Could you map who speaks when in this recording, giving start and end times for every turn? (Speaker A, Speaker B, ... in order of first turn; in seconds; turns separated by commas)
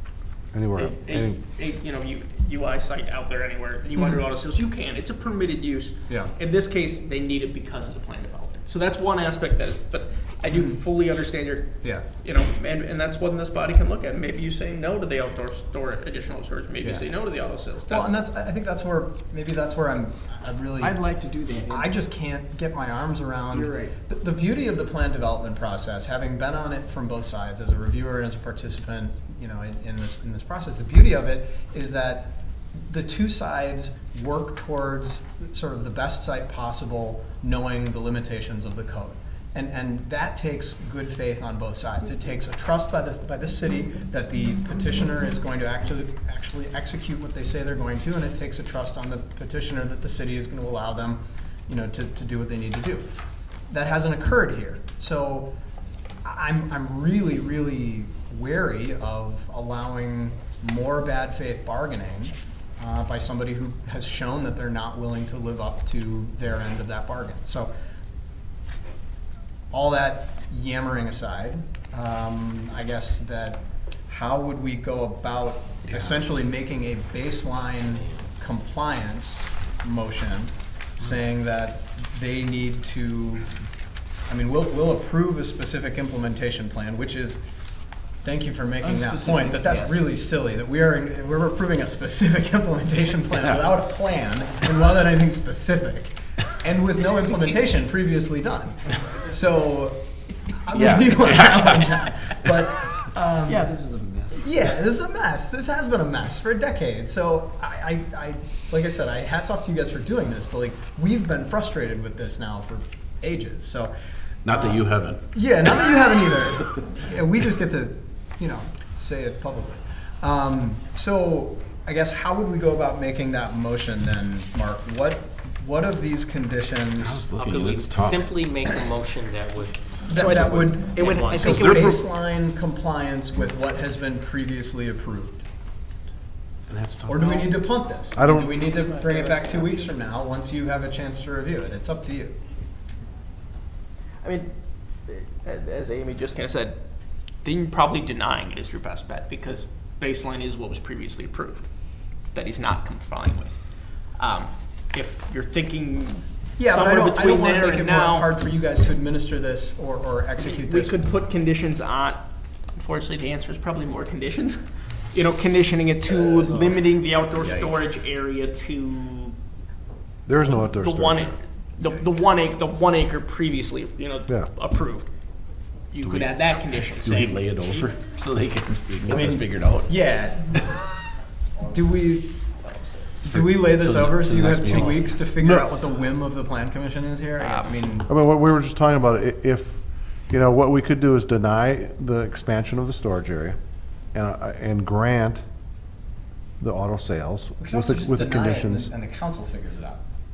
Speaker A: 0.5-1.4, Speaker B: 0.8-18.2, Speaker C: 6.1-6.3, Speaker C: 10.5-10.8, Speaker C: 11.8-12.1, Speaker C: 17.9-21.2, Speaker D: 20.8-21.9, Speaker C: 21.7-53.1, Speaker D: 23.5-24.0, Speaker C: 53.7-55.5, Speaker C: 56.2-67.7, Speaker C: 69.7-83.5, Speaker E: 75.8-76.2, Speaker C: 84.3-87.4, Speaker C: 88.2-103.7, Speaker D: 88.8-90.2, Speaker E: 93.4-93.7, Speaker E: 100.7-103.0, Speaker D: 103.4-104.6, Speaker C: 104.3-113.9, Speaker E: 114.5-116.9, Speaker C: 114.5-127.2, Speaker E: 127.0-128.5, Speaker F: 127.3-131.8, Speaker C: 130.1-135.5, Speaker B: 130.1-132.1, Speaker E: 136.7-137.7, Speaker C: 137.1-142.4, Speaker A: 138.2-138.6, Speaker B: 138.8-139.6, Speaker B: 144.2-158.3, Speaker C: 156.6-161.0, Speaker B: 160.4-169.4, Speaker C: 166.2-166.8, Speaker C: 167.4-167.9, Speaker A: 170.3-171.4, Speaker B: 170.4-175.1, Speaker A: 174.3-174.5, Speaker B: 175.9-177.9, Speaker E: 176.0-179.9, Speaker C: 179.1-180.6, Speaker C: 181.7-182.4, Speaker B: 182.6-183.2, Speaker C: 183.3-188.1, Speaker E: 183.3-185.5, Speaker B: 187.4-187.8, Speaker A: 188.1-195.4, Speaker A: 196.6-198.9, Speaker C: 197.6-200.1